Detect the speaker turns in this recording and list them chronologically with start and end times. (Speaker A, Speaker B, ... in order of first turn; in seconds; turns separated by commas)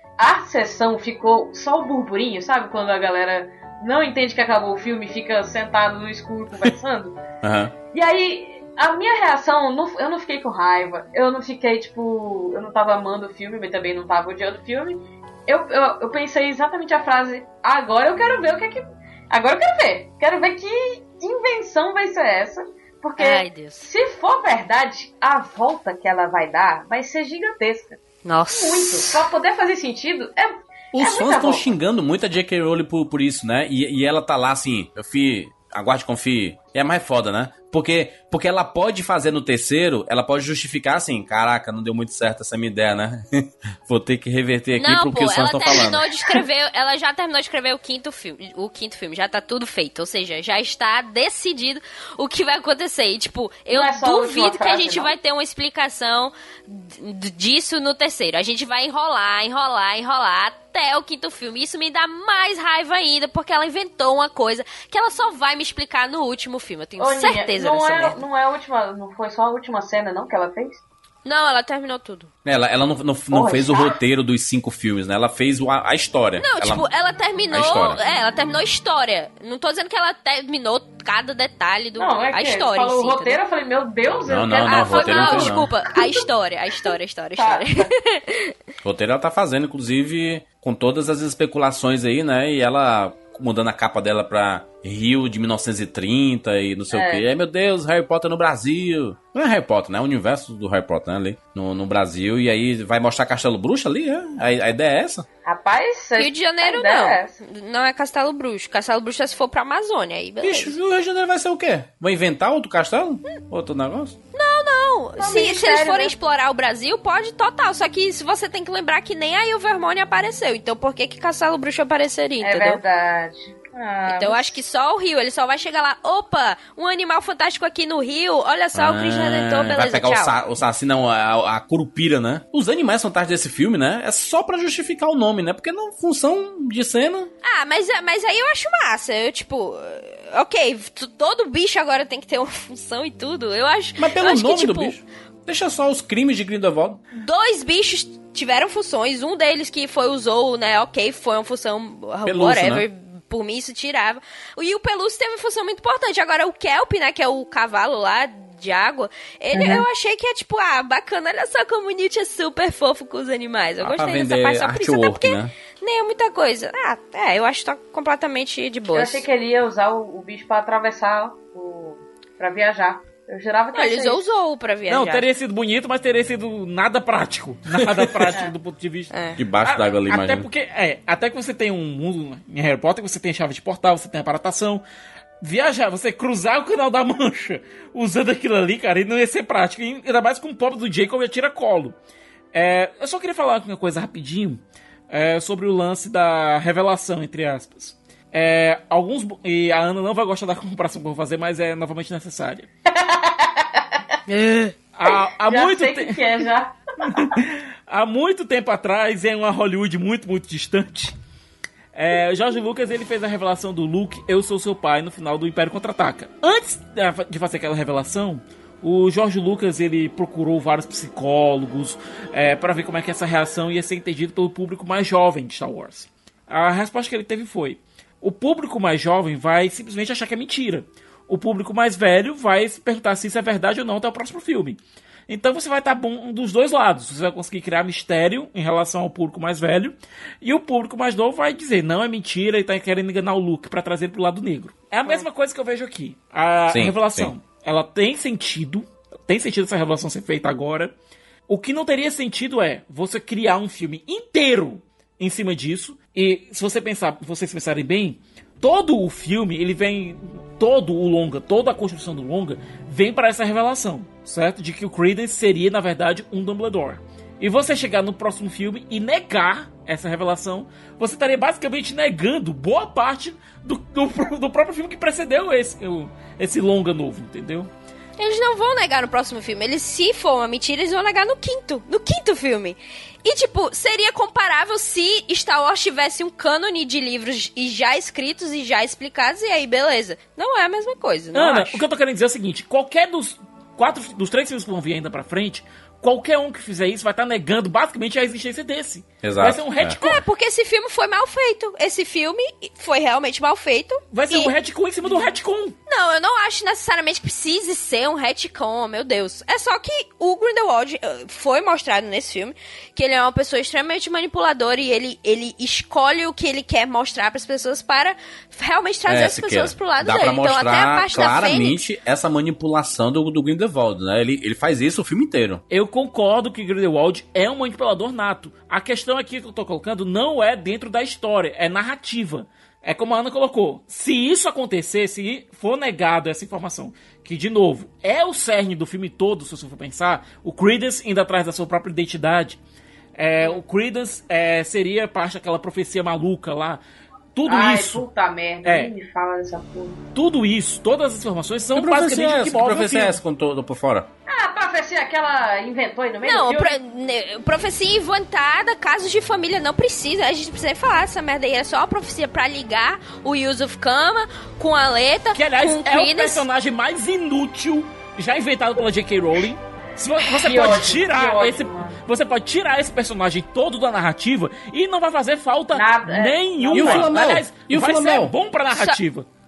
Speaker A: 0.2-7.2, Speaker B: 7.4-7.7, Speaker A: 7.9-28.0, Speaker C: 23.2-23.8, Speaker C: 28.2-29.2, Speaker A: 28.5-31.7, Speaker B: 30.9-46.4, Speaker C: 44.7-68.2, Speaker A: 53.7-55.1, Speaker A: 67.0-70.8, Speaker C: 71.2-72.3, Speaker B: 72.4-76.8, Speaker A: 73.3-74.0, Speaker C: 76.4-83.4, Speaker B: 77.5-78.0, Speaker A: 82.0-86.2, Speaker B: 84.2-85.7, Speaker C: 84.6-88.5, Speaker A: 87.4-87.9, Speaker B: 88.8-105.2, Speaker A: 96.9-97.2, Speaker A: 105.4-107.4, Speaker C: 106.2-110.8, Speaker B: 110.4-114.2, Speaker C: 114.3-122.8, Speaker A: 115.2-116.1, Speaker A: 122.4-124.6, Speaker C: 124.1-130.3, Speaker B: 128.7-137.3, Speaker C: 137.4-145.0, Speaker B: 144.0-147.0, Speaker C: 147.1-169.2, Speaker B: 152.2-152.8, Speaker A: 159.5-159.8, Speaker B: 163.8-165.5, Speaker A: 168.9-174.2, Speaker C: 173.7-175.2, Speaker D: 174.9-179.1, Speaker B: 177.8-178.3, Speaker C: 179.1-179.4, Speaker B: 179.4-180.5, Speaker D: 179.6-184.8, Speaker D: 185.4-191.9, Speaker D: 192.5-202.7, Speaker A: 202.9-204.0, Speaker C: 204.3-204.7, Speaker D: 204.9-206.4, Speaker A: 205.1-207.3, Speaker D: 207.0-211.1, Speaker D: 211.9-250.9, Speaker B: 246.7-247.3, Speaker D: 251.5-277.7, Speaker C: 278.2-291.8, Speaker D: 291.3-300.2, Speaker B: 299.2-300.0, Speaker C: 300.0-304.5, Speaker D: 304.1-305.8, Speaker C: 305.9-321.8, Speaker B: 319.1-325.6, Speaker D: 325.7-342.6, Speaker D: 343.2-346.8, Speaker D: 347.4-348.0, Speaker A: 347.4-350.0, Speaker D: 348.6-348.9, Speaker D: 350.1-353.2, Speaker B: 351.7-354.1, Speaker A: 354.2-356.7, Speaker C: 356.2-366.4, Speaker D: 365.3-379.2, Speaker A: 370.4-372.0, Speaker A: 375.7-377.1, Speaker B: 376.7-378.3, Speaker C: 378.7-379.0